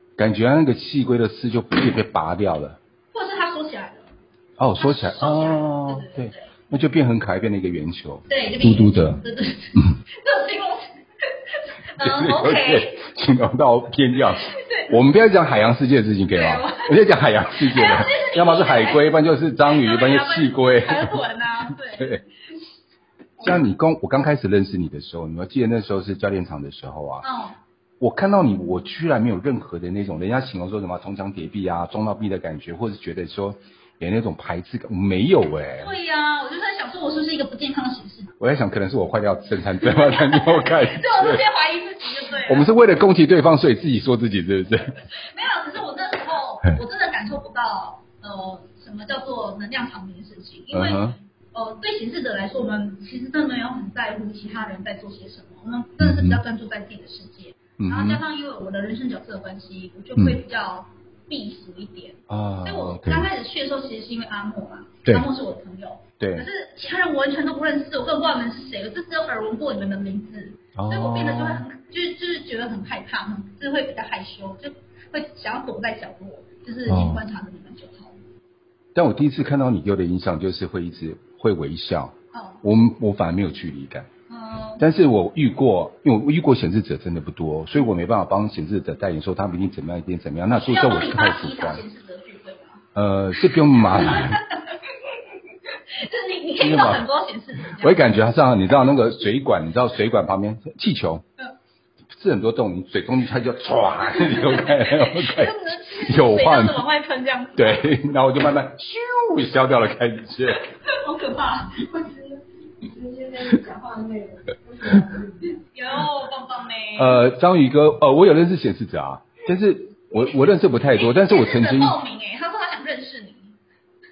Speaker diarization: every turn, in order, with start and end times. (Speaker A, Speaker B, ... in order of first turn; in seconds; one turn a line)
Speaker A: 0.2-2.8
Speaker B: 3.1-4.1
Speaker A: 4.6-9.2
Speaker B: 4.8-6.5
Speaker B: 8.3-11.0
Speaker B: 11.5-13.1
Speaker A: 12.0-21.2
Speaker B: 14.4-15.0
Speaker B: 16.3-17.0
Speaker B: 17.5-19.2
Speaker B: 19.7-22.2
Speaker A: 22.0-22.2
Speaker A: 23.4-27.3
Speaker B: 27.2-27.6
Speaker A: 28.0-35.9
Speaker B: 35.8-38.3
Speaker A: 38.4-41.5
Speaker B: 40.0-42.7
Speaker A: 42.5-44.9
Speaker B: 45.3-78.2
Speaker A: 50.7-51.2
Speaker A: 56.0-56.4
Speaker A: 57.8-58.2
Speaker A: 62.3-63.3
Speaker A: 66.2-66.5
Speaker A: 70.8-71.7
Speaker A: 76.9-77.2
Speaker A: 79.0-84.1
Speaker B: 82.3-82.6
Speaker B: 84.3-84.8
Speaker A: 84.8-91.8
Speaker B: 90.5-92.8
Speaker A: 93.0-94.4
Speaker B: 93.4-94.8
Speaker B: 95.7-98.1
Speaker A: 96.6-97.0
Speaker A: 97.7-101.2
Speaker A: 102.1-106.8
Speaker B: 104.2-107.9
Speaker A: 107.6-110.6
Speaker B: 110.8-111.8
Speaker C: 111.8-115.6
Speaker B: 115.7-117.3
Speaker A: 117.0-122.0
Speaker B: 121.0-123.5